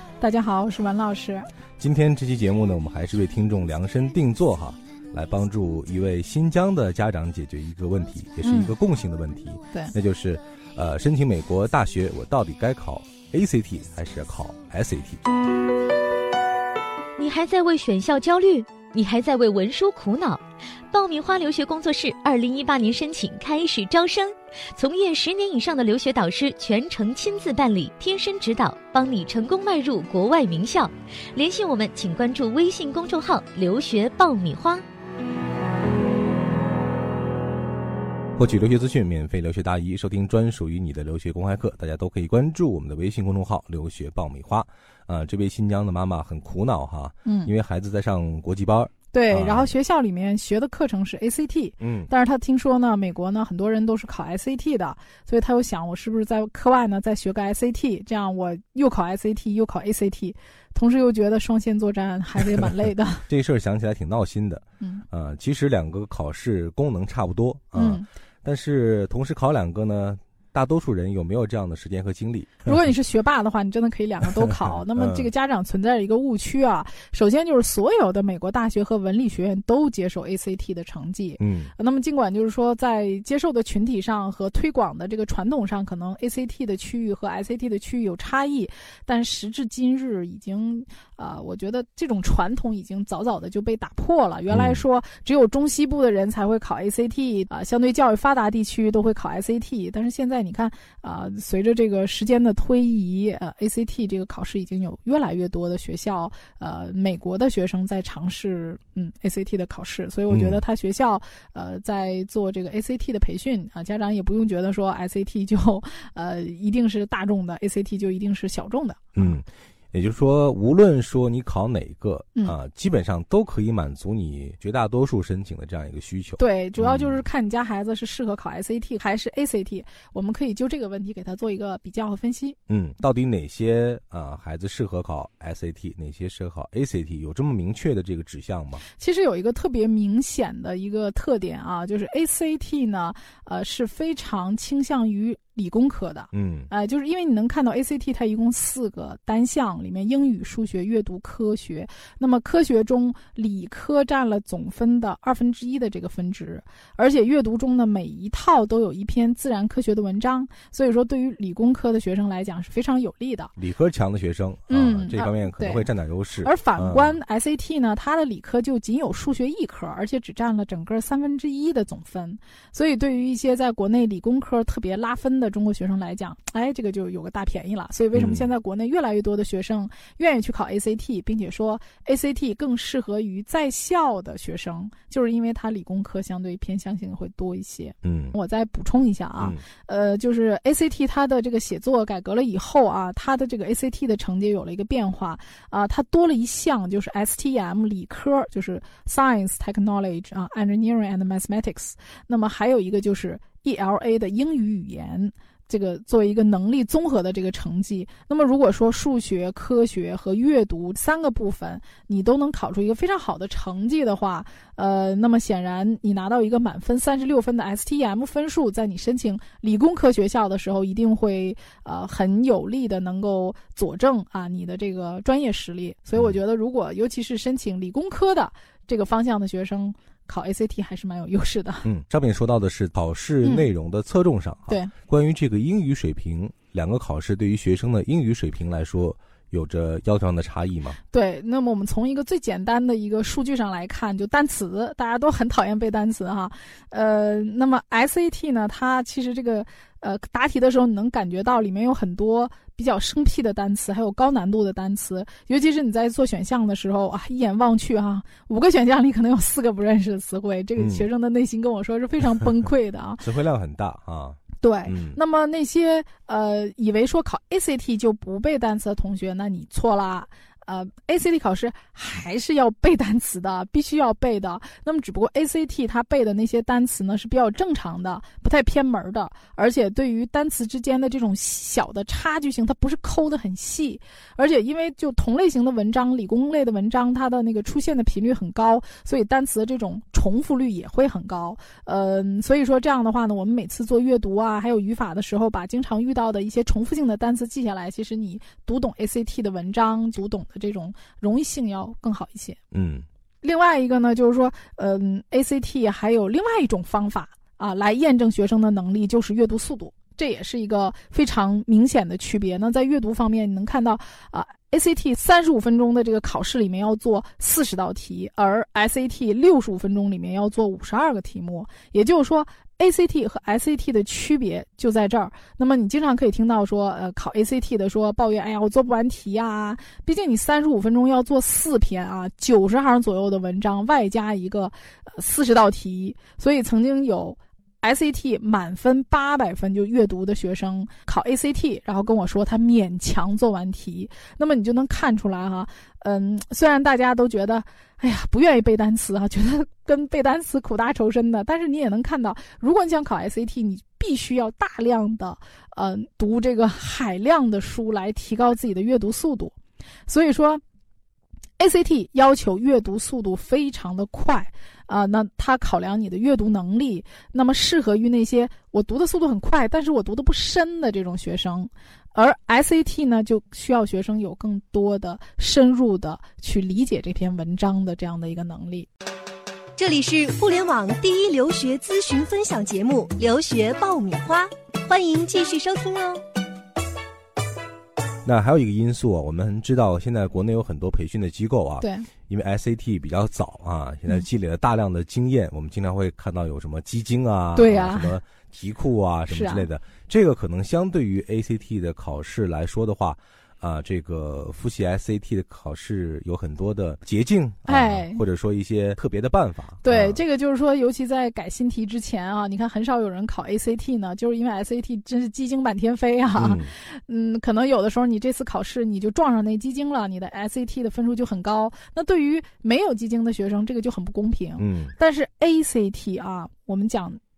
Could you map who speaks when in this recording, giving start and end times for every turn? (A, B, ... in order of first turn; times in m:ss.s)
0:00.2-0:01.5 A
0:01.8-0:15.2 B
0:08.4-0:08.7 A
0:17.2-0:34.8 C
0:38.4-0:49.7 B
0:47.2-0:47.5 A
0:49.1-1:03.2 A
0:51.8-0:52.1 B
1:03.3-1:12.7 B
1:07.7-1:08.1 A
1:12.6-1:59.4 A
1:15.0-1:15.3 B
1:21.4-1:21.7 B
1:34.5-1:34.8 B
1:50.3-1:50.6 B
1:59.2-2:07.2 B
2:06.4-2:12.6 A
2:12.7-2:18.8 B
2:18.9-2:43.5 A
2:26.3-2:26.7 B
2:43.6-2:47.2 B
2:44.7-2:45.9 A
2:46.4-3:51.8 A
2:58.1-2:58.5 B
3:08.0-3:08.3 B
3:51.8-4:01.0 B
3:53.4-3:53.7 A
4:01.1-4:23.2 A
4:20.8-4:21.1 B
4:23.2-4:25.2 B
4:24.6-5:02.6 A
5:02.7-5:03.0 B
5:03.4-5:59.5 A
6:00.1-6:00.6 A
6:01.6-6:18.9 A
6:19.8-6:26.2 D
6:28.2-6:50.2 B
6:31.8-6:32.1 A
6:37.5-6:38.2 A
6:39.3-6:39.7 A
6:47.7-6:48.2 A
6:49.8-7:07.2 A
6:56.3-6:56.7 B
7:04.6-7:04.9 B